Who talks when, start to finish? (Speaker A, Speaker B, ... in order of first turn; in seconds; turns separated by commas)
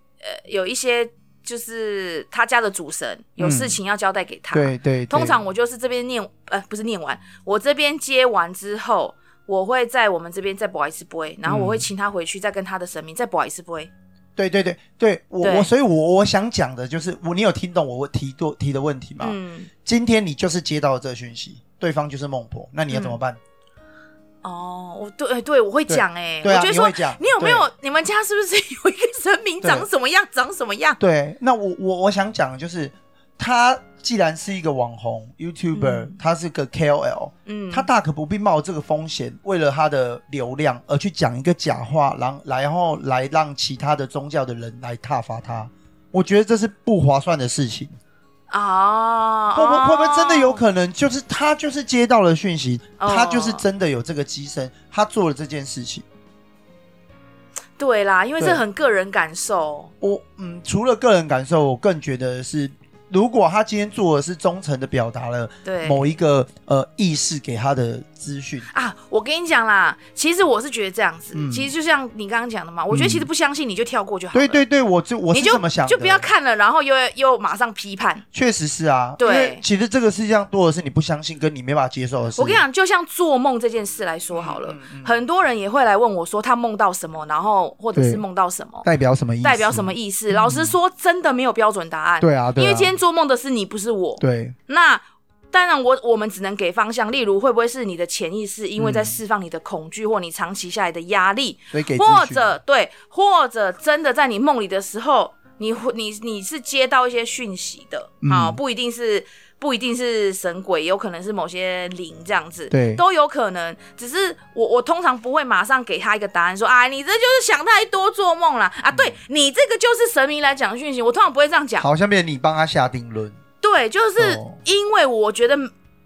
Speaker A: 0.2-13.9, Speaker B: 3.4-3.8, Speaker B: 4.5-5.4, Speaker B: 11.5-11.9, Speaker B: 14.4-23.4, Speaker A: 15.4-15.7, Speaker A: 19.2-19.7, Speaker A: 22.9-23.2, Speaker A: 24.4-31.0, Speaker B: 25.9-27.7, Speaker B: 29.6-29.9, Speaker B: 31.0-48.0, Speaker A: 35.7-36.1, Speaker A: 37.5-37.9, Speaker A: 48.5-50.6, Speaker B: 49.5-56.0, Speaker A: 53.0-53.6, Speaker A: 57.8-59.9, Speaker B: 60.0-68.7, Speaker A: 65.7-66.0, Speaker A: 68.7-74.6, Speaker B: 71.3-71.7, Speaker B: 72.9-73.3, Speaker B: 74.3-76.3, Speaker A: 75.3-78.2, Speaker B: 78.3-82.6, Speaker A: 79.2-79.6, Speaker A: 82.4-88.9, Speaker B: 84.3-85.2, Speaker B: 87.9-88.2, Speaker B: 88.8-90.8, Speaker A: 89.4-121.9, Speaker B: 92.2-93.0, Speaker B: 94.2-94.6, Speaker B: 98.8-99.2, Speaker B: 101.7-102.5, Speaker B: 108.2-108.6, Speaker B: 112.7-113.0, Speaker B: 121.8-123.4, Speaker A: 123.6-125.7, Speaker B: 124.2-124.6